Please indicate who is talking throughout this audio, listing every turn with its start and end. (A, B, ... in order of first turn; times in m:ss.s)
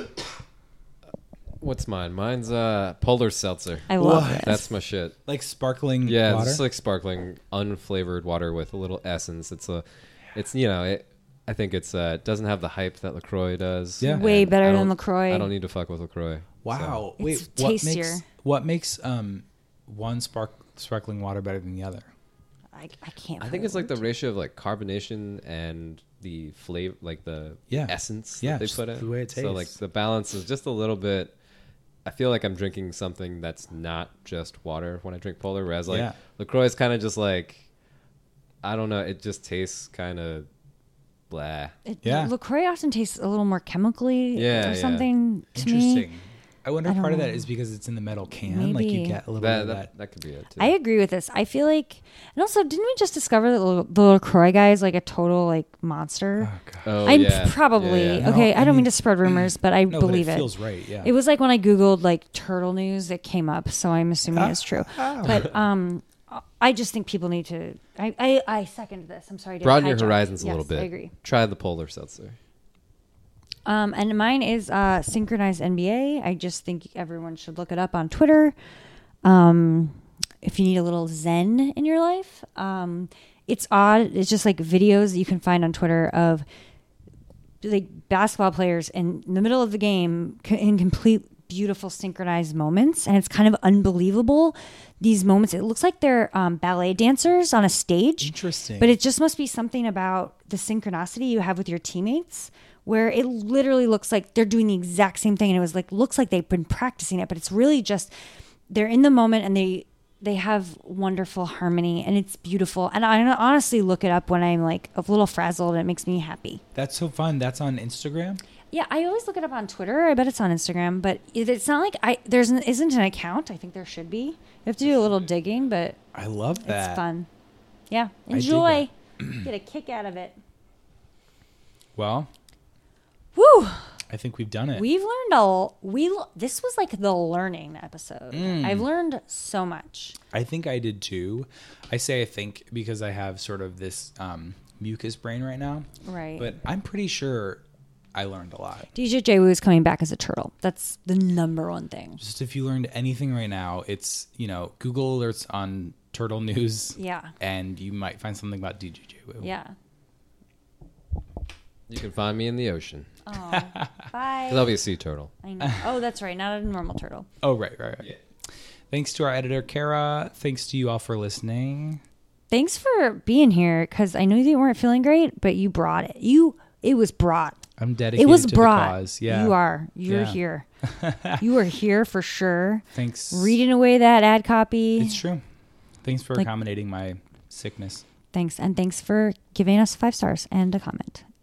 0:01.6-0:05.2 A
0:03.9-0:04.7 B
0:04.0-0:04.6 C
0:05.2-0:06.6 C
0:06.0-0:17.0 A
0:14.0-0:14.2 C
0:14.1-0:15.5 B
0:16.6-0:22.1 C
0:17.2-0:18.2 B
0:22.7-0:24.0 B
0:23.4-0:31.3 A
0:27.7-0:29.8 C
0:32.0-0:37.6 A
0:35.9-0:36.2 C
0:38.6-0:40.5 A
0:41.3-0:41.7 A
0:41.8-0:46.1 B
0:42.0-0:42.3 C
0:44.3-0:45.1 A
0:45.5-0:49.9 C
0:46.8-0:47.5 B
0:48.4-0:49.2 B
0:49.4-0:50.7 A
0:50.6-0:56.5 B
0:56.4-0:57.4 C
0:56.8-0:58.3 A
0:57.0-1:11.1 B
0:58.2-1:01.1 C
1:04.3-1:05.5 C
1:09.6-1:12.4 A
1:13.6-1:18.5 B
1:19.2-1:26.4 B
1:27.6-1:48.1 B
1:38.2-1:39.0 C
1:48.7-1:56.6 B
1:56.7-1:58.4 C
1:58.7-2:06.0 B
2:06.1-2:07.0 C
2:06.6-2:07.3 B
2:07.9-2:10.4 B
2:08.3-2:09.4 C
2:12.0-2:12.3 C
2:13.3-2:13.9 B
2:14.1-2:14.9 C
2:14.7-2:20.2 B
2:18.3-2:18.9 C
2:20.3-2:27.6 C
2:26.0-2:26.5 B
2:28.1-2:28.9 C
2:28.9-2:32.2 B
2:32.2-2:39.5 C
2:36.9-2:37.3 B
2:39.4-2:39.7 B
2:41.9-2:43.1 A
2:43.2-2:44.8 B
2:43.5-2:43.9 C
2:44.5-2:45.3 A
2:45.4-2:47.3 B
2:47.4-2:48.1 C
2:48.9-2:52.0 C
2:52.5-2:57.6 B
2:57.8-3:01.4 C
2:58.2-3:00.7 B
3:01.4-3:05.2 B
3:02.9-3:03.6 C
3:05.0-3:05.4 C
3:06.0-3:08.0 C
3:08.3-3:11.2 B